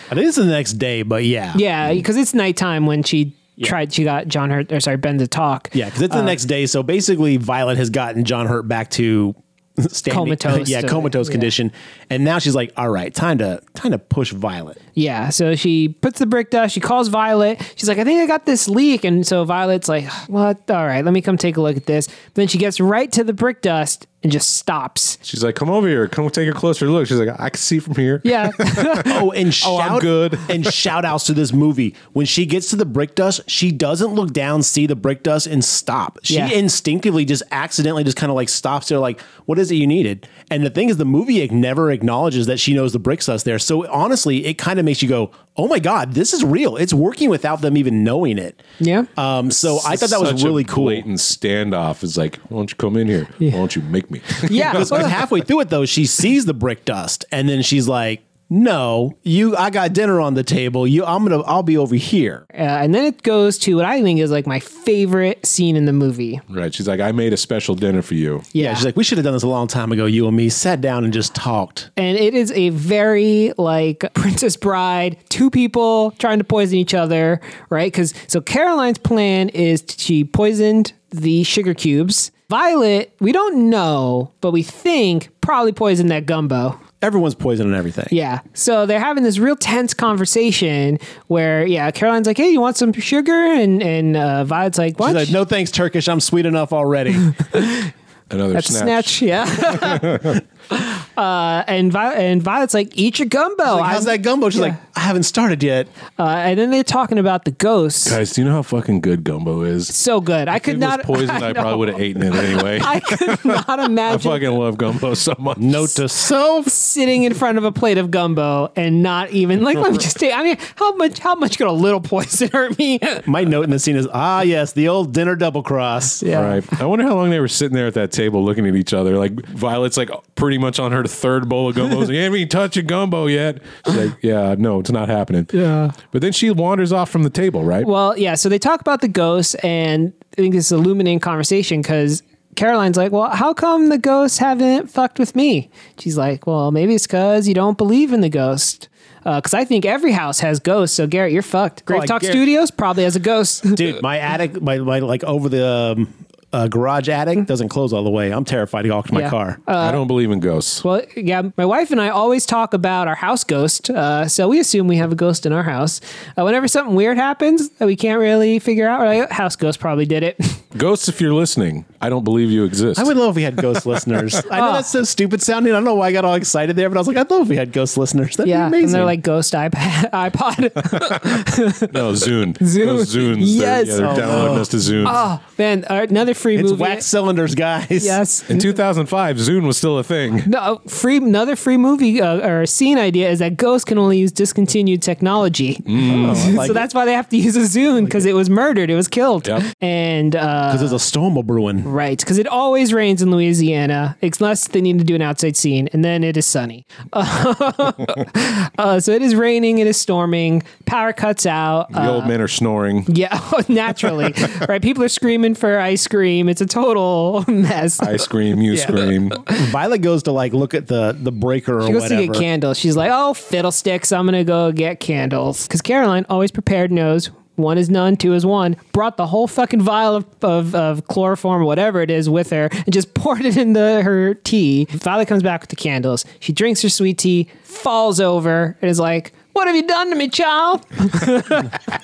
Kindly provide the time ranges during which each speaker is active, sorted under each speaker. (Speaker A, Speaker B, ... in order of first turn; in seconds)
Speaker A: 0.1-1.6, 5.7-14.8, 29.0-48.6, 49.1-51.0, 54.6-62.4, 68.5-71.9, 87.0-88.1, 95.0-97.3, 103.6-105.9, 115.6-116.7, 123.2-126.2, 151.9-152.4, 153.7-159.6, 172.9-179.2, 184.0-184.9, 186.5-188.2, 196.0-196.9, 200.7-201.9, 218.7-222.4
Speaker B: 1.5-6.4, 10.1-11.5, 14.9-25.2, 28.2-29.2, 36.3-36.6, 48.8-49.1, 54.4-55.1, 62.5-66.4, 68.5-68.8, 72.0-86.8, 88.1-95.4, 97.5-97.9, 98.5-104.8, 106.2-108.2, 109.9-114.5, 116.7-123.3, 126.2-126.7, 135.5-135.9, 137.8-154.0, 159.1-160.0, 160.8-170.6, 174.5-174.9, 178.4-187.1, 188.0-188.7, 190.4-201.0, 201.8-212.3, 213.1-218.2, 221.8-241.7
Speaker C: 25.2-30.7, 49.6-55.0, 66.5-68.5, 98.3-100.4, 108.0-109.9, 110.5-116.0, 126.3-137.9, 159.8-160.8, 170.7-173.1, 181.9-185.2, 188.5-190.5, 195.9-196.7, 211.9-213.1, 218.0-219.4